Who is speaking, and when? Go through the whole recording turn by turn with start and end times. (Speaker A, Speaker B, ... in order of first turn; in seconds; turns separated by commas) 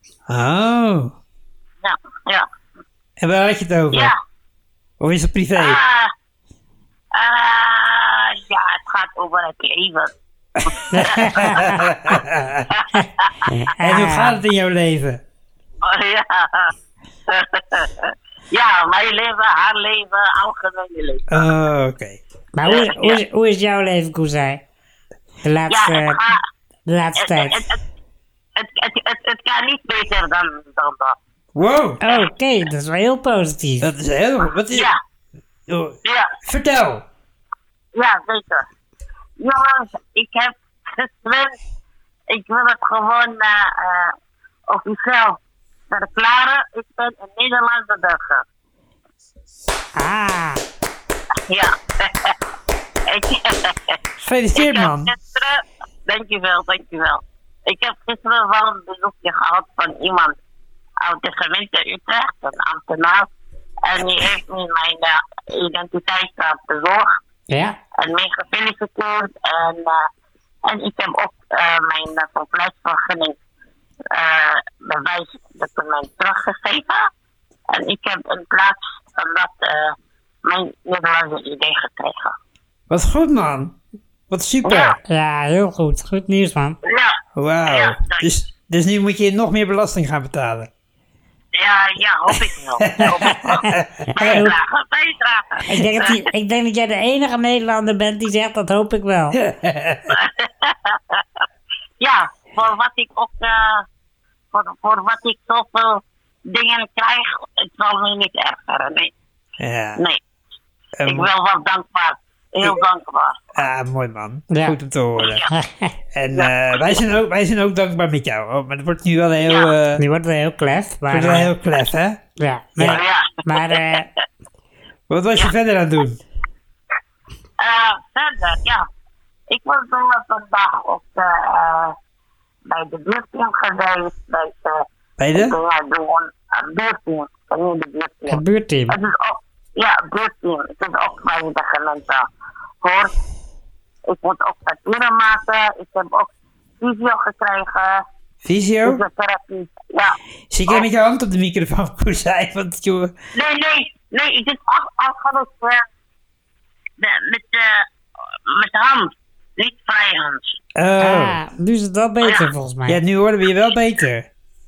Speaker A: 0.3-1.1, Speaker B: 1.8-2.5, Speaker A: 3.2-4.1, Speaker B: 3.9-4.2, Speaker A: 5.0-5.8, Speaker B: 5.6-6.1, Speaker B: 7.1-10.1, Speaker B: 10.7-11.5, Speaker C: 10.9-11.9, Speaker A: 11.0-12.7, Speaker B: 12.7-13.5, Speaker C: 13.8-14.4, Speaker A: 13.8-15.2, Speaker B: 15.8-16.7, Speaker B: 17.3-21.4, Speaker A: 21.3-22.2, Speaker C: 22.6-24.6, Speaker B: 22.7-23.2, Speaker C: 25.4-26.2, Speaker B: 25.7-26.4, Speaker C: 26.9-27.6, Speaker B: 27.2-27.8, Speaker B: 28.6-31.2, Speaker A: 31.6-32.0, Speaker C: 32.0-33.9, Speaker A: 33.8-34.9, Speaker B: 34.7-35.0, Speaker A: 35.7-37.1, Speaker B: 36.0-36.4, Speaker B: 37.9-38.7, Speaker B: 39.4-41.6, Speaker B: 42.3-44.1, Speaker B: 44.7-45.4, Speaker B: 45.9-48.4, Speaker C: 50.0-50.6, Speaker B: 51.5-52.4, Speaker B: 53.1-54.0, Speaker A: 54.2-55.1, Speaker B: 54.5-60.4, Speaker B: 61.0-63.3, Speaker B: 63.8-67.2, Speaker C: 67.5-67.8, Speaker B: 68.0-70.1, Speaker B: 70.7-73.3, Speaker B: 74.1-77.1, Speaker B: 77.7-82.3, Speaker A: 82.9-83.8, Speaker A: 84.3-85.0, Speaker B: 84.6-84.9, Speaker C: 85.1-86.8, Speaker B: 86.8-88.3, Speaker A: 87.3-90.7, Speaker B: 91.5-93.6, Speaker A: 92.3-94.4, Speaker C: 93.6-94.5, Speaker B: 94.2-96.2, Speaker C: 95.7-99.4, Speaker A: 99.3-100.2, Speaker B: 100.1-101.4, Speaker B: 102.0-103.8, Speaker B: 104.5-109.1, Speaker A: 109.6-110.0, Speaker A: 111.0-111.3, Speaker B: 111.0-113.6, Speaker A: 113.5-115.5, Speaker C: 114.5-114.8, Speaker B: 115.2-115.5, Speaker C: 115.5-115.9, Speaker A: 116.1-120.0, Speaker B: 116.3-117.0, Speaker B: 119.4-119.7, Speaker C: 120.0-121.5, Speaker A: 121.1-122.2, Speaker C: 122.4-124.1, Speaker B: 122.8-124.0, Speaker A: 125.1-126.2, Speaker B: 127.6-128.8, Speaker B: 129.5-131.9, Speaker B: 132.7-142.2, Speaker A: 135.2-135.6, Speaker C: 138.3-138.9, Speaker B: 142.8-143.1, Speaker B: 144.1-148.0, Speaker A: 148.4-149.0, Speaker B: 148.8-150.2, Speaker A: 150.5-153.1, Speaker B: 153.3-155.8, Speaker B: 157.0-157.9, Speaker B: 158.5-160.6, Speaker A: 160.8-161.4, Speaker C: 161.0-163.0, Speaker A: 162.9-164.3